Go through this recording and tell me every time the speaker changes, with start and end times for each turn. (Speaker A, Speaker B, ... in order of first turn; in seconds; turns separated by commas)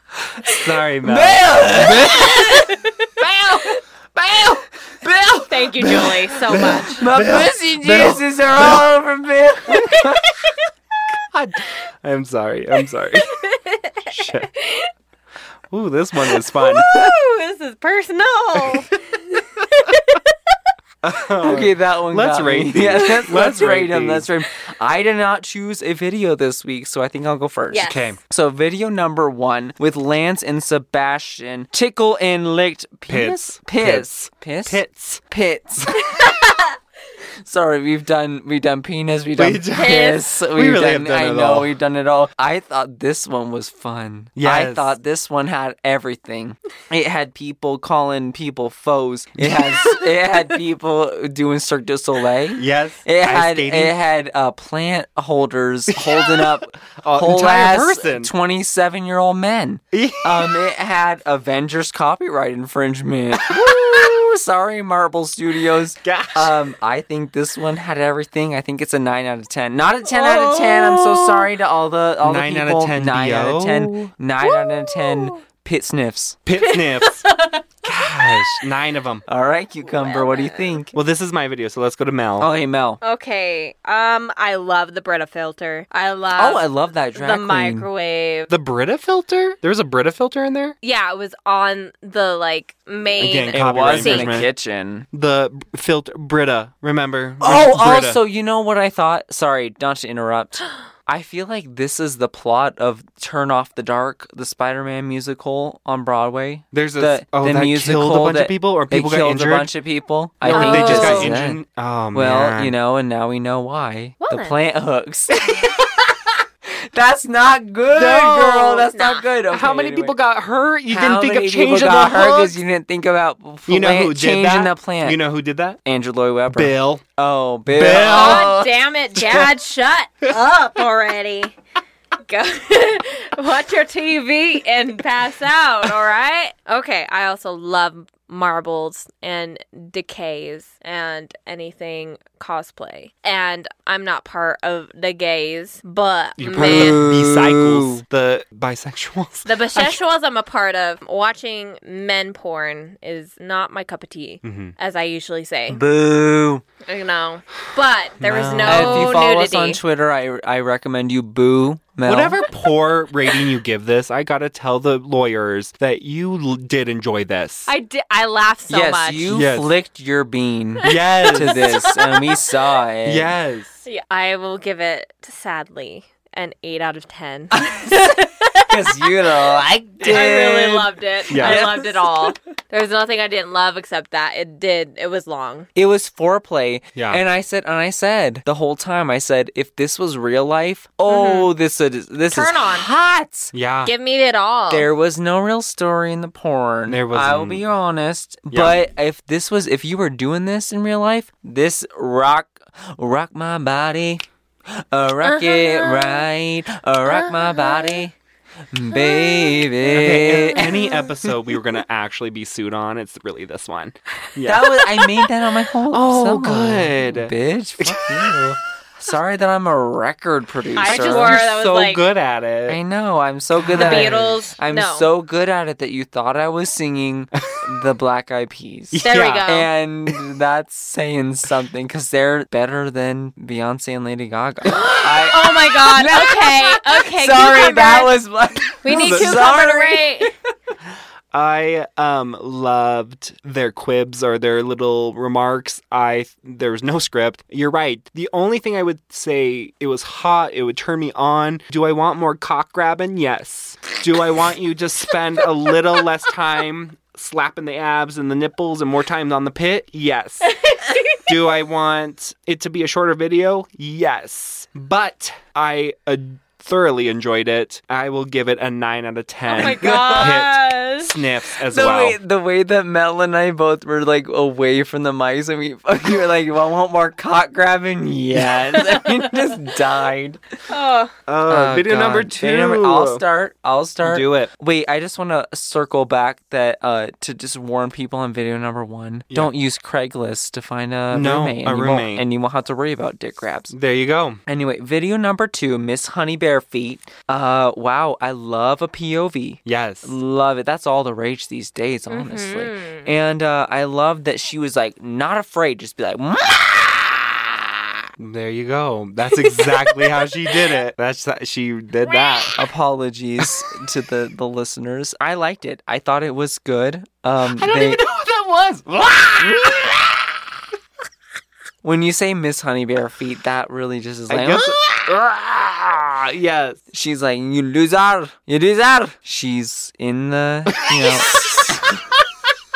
Speaker A: 0.4-2.6, Speaker B: 1.0-2.7, Speaker C: 2.3-3.1, Speaker A: 3.2-4.7, Speaker B: 4.4-10.4, Speaker C: 5.5-7.0, Speaker A: 5.8-8.9, Speaker A: 11.3-13.4, Speaker C: 13.1-14.9, Speaker A: 14.1-14.5, Speaker A: 15.7-16.9, Speaker C: 16.2-20.3, Speaker A: 18.6-18.8, Speaker A: 21.0-24.3, Speaker B: 21.4-36.0, Speaker C: 27.7-28.2, Speaker A: 27.8-28.2, Speaker A: 33.1-35.2, Speaker C: 36.1-36.6, Speaker B: 37.4-76.4, Speaker A: 39.4-41.7, Speaker C: 39.7-40.3, Speaker A: 44.4-44.9, Speaker A: 49.4-50.0, Speaker A: 52.6-54.0, Speaker A: 55.9-58.3, Speaker A: 59.9-60.6, Speaker A: 63.6-63.9, Speaker A: 66.0-66.6, Speaker A: 70.0-71.5, Speaker A: 72.2-74.1, Speaker C: 74.5-75.3, Speaker A: 76.5-77.3, Speaker C: 76.6-77.6, Speaker A: 77.8-79.2, Speaker C: 78.3-78.7, Speaker B: 79.3-81.0, Speaker C: 79.9-80.8, Speaker A: 80.9-82.5, Speaker B: 82.4-83.0, Speaker C: 83.0-88.5, Speaker B: 86.4-87.9, Speaker A: 88.5-90.8, Speaker C: 90.8-94.5, Speaker A: 93.2-94.5, Speaker B: 93.5-95.1, Speaker A: 95.1-98.2, Speaker B: 97.4-111.6, Speaker A: 106.7-109.7, Speaker A: 110.4-112.8, Speaker C: 110.5-111.3, Speaker B: 112.1-115.3, Speaker C: 114.2-114.6, Speaker B: 116.7-120.2, Speaker A: 117.9-118.9, Speaker C: 118.9-119.3, Speaker A: 119.5-122.6, Speaker B: 120.9-125.2, Speaker A: 123.7-125.8, Speaker B: 125.8-128.8, Speaker A: 126.5-127.0, Speaker A: 127.7-128.5, Speaker C: 127.9-131.6, Speaker C: 132.3-147.0, Speaker A: 146.4-150.0, Speaker B: 146.5-148.0, Speaker C: 149.5-155.8, Speaker A: 154.4-154.8, Speaker B: 155.7-156.6, Speaker C: 156.8-159.8, Speaker A: 158.2-159.2, Speaker B: 158.6-162.4, Speaker A: 162.1-167.7, Speaker C: 167.7-169.3, Speaker B: 168.7-173.3, Speaker A: 169.3-169.7, Speaker A: 170.8-171.7, Speaker C: 170.8-172.5, Speaker A: 173.1-173.8, Speaker C: 173.8-179.3, Speaker B: 177.5-182.3, Speaker C: 180.0-185.7, Speaker A: 181.3-181.7, Speaker B: 185.8-193.5, Speaker A: 186.9-187.2, Speaker C: 191.1-191.5, Speaker C: 192.3-192.9, Speaker A: 193.5-193.9, Speaker C: 193.8-194.9, Speaker B: 194.7-208.2, Speaker A: 196.9-197.7, Speaker A: 198.5-198.8, Speaker C: 205.2-206.2, Speaker C: 207.1-208.0, Speaker B: 208.7-210.7, Speaker C: 208.9-209.7, Speaker A: 209.9-214.8, Speaker C: 210.6-211.1, Speaker B: 214.4-221.4, Speaker A: 215.9-218.6, Speaker C: 220.8-222.0, Speaker A: 220.8-222.8, Speaker B: 222.7-240.3, Speaker A: 223.6-224.4, Speaker C: 223.7-225.1, Speaker A: 227.3-227.6, Speaker A: 228.9-229.5, Speaker C: 229.0-229.7, Speaker C: 234.7-238.2, Speaker C: 238.8-240.3, Speaker A: 238.9-239.4, Speaker A: 241.3-260.5, Speaker C: 260.4-261.4, Speaker A: 261.3-272.2, Speaker C: 269.5-271.2, Speaker B: 269.5-270.4, Speaker B: 271.7-280.4, Speaker C: 278.7-279.6, Speaker C: 280.7-281.1, Speaker A: 281.3-283.2, Speaker B: 281.5-293.7, Speaker A: 284.0-284.5, Speaker A: 291.1-292.2, Speaker A: 293.7-294.4, Speaker B: 294.5-307.5, Speaker A: 299.6-300.2, Speaker C: 302.1-303.1, Speaker A: 308.2-312.6, Speaker C: 309.4-310.7, Speaker C: 312.1-312.6, Speaker B: 312.6-318.0, Speaker A: 317.4-320.4, Speaker B: 321.8-324.8, Speaker A: 324.3-326.8, Speaker B: 326.9-331.9, Speaker A: 330.8-332.2